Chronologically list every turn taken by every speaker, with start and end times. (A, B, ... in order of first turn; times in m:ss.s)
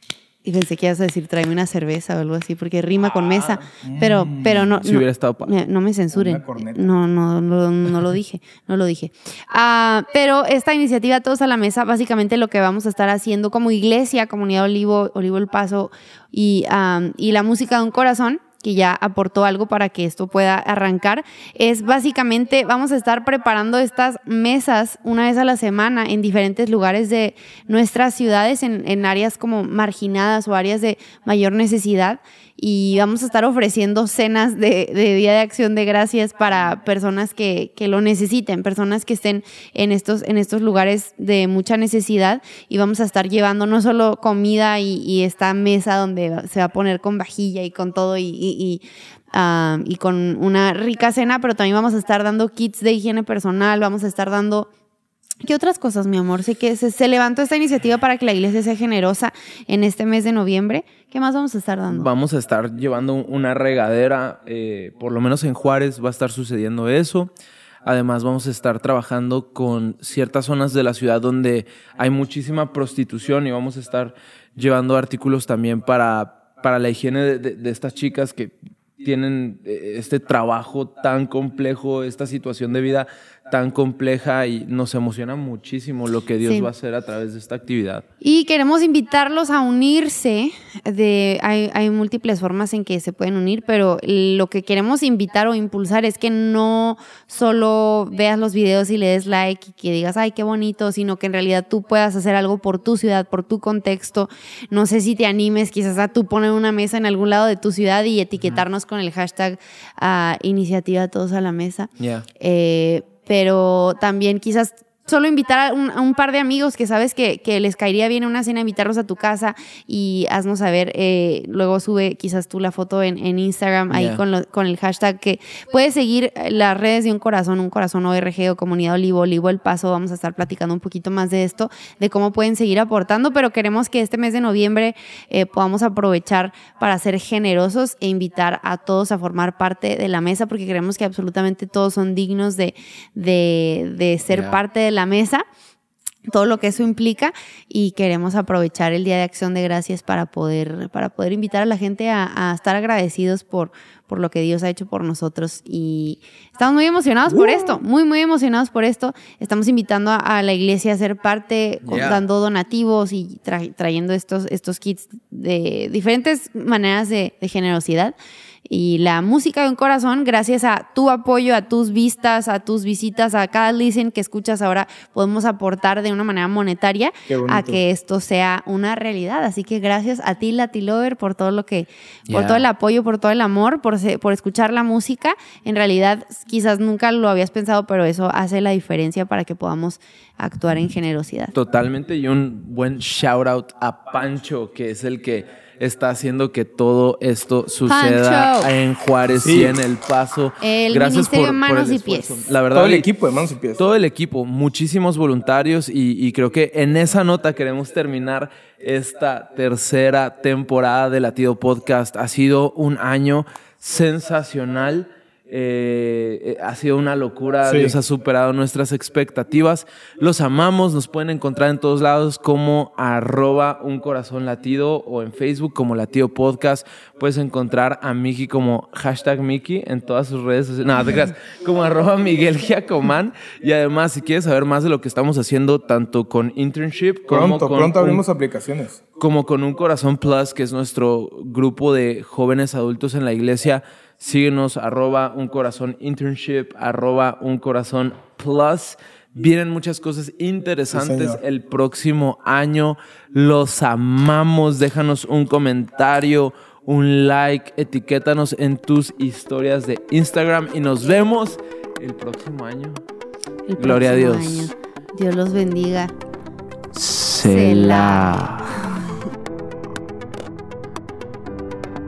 0:00.4-0:54.7 A
0:03.0-0:03.6 B
0:03.8-0:04.8 C
0:04.8-0:05.5 B
0:06.1-0:06.9 C
0:55.4-1:02.1 A
1:01.9-1:07.3 B
1:07.8-1:28.0 B
1:28.2-2:25.4 A
1:52.0-1:52.3 B
2:03.9-2:04.2 B
2:24.3-2:24.6 B
2:26.3-2:48.1 A
2:41.8-2:42.2 B
2:48.7-3:11.5 A
2:57.3-2:57.8 C
3:02.3-3:02.7 B
3:11.5-3:23.1 B
3:17.9-3:18.7 A
3:19.4-3:19.8 C
3:20.6-3:22.4 A
3:22.7-3:23.8 C
3:23.8-3:58.2 B
3:37.6-3:38.0 C
3:57.3-3:59.0 C
3:59.2-4:23.0 B
4:10.9-4:11.4 C
4:23.7-4:26.1 A
4:23.8-4:24.7 B
4:26.9-4:28.8 B
4:27.4-4:28.6 A